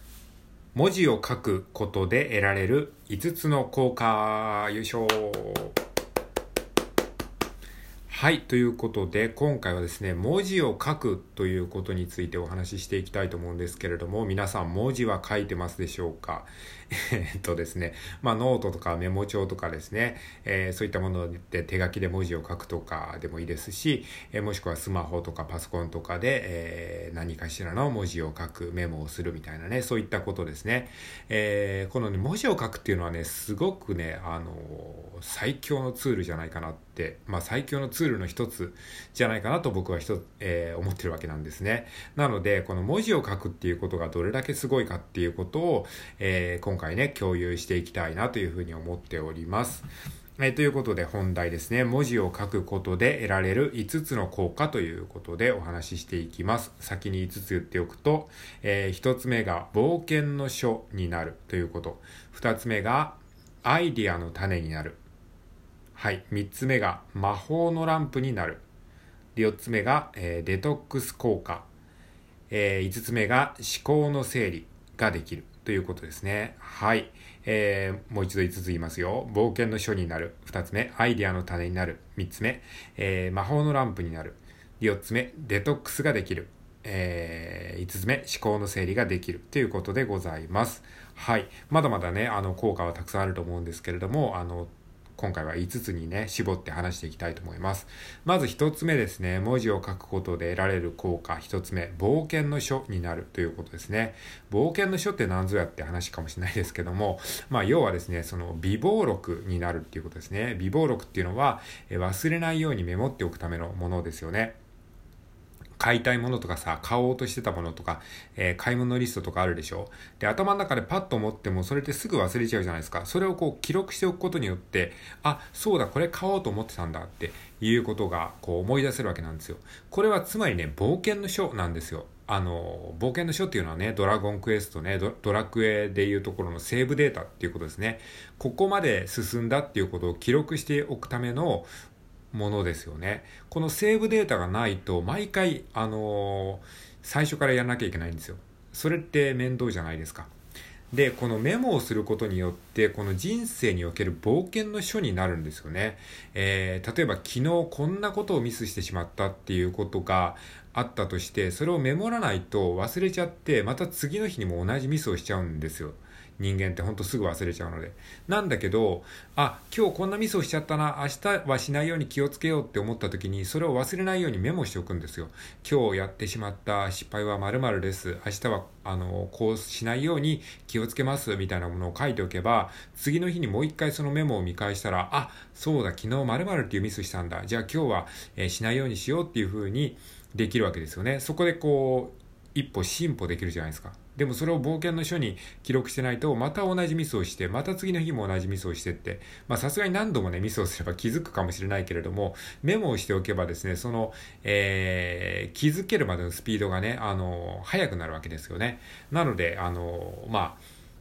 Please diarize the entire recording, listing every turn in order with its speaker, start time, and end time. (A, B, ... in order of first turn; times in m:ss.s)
0:00.7-0:05.7 A
0:08.1-0:49.9 A
0:50.4-1:05.0 A
1:06.0-1:08.6 A
1:09.3-1:11.7 A
1:12.5-1:54.6 A
1:55.8-2:21.7 A
2:22.3-2:30.3 A
2:30.9-3:30.6 A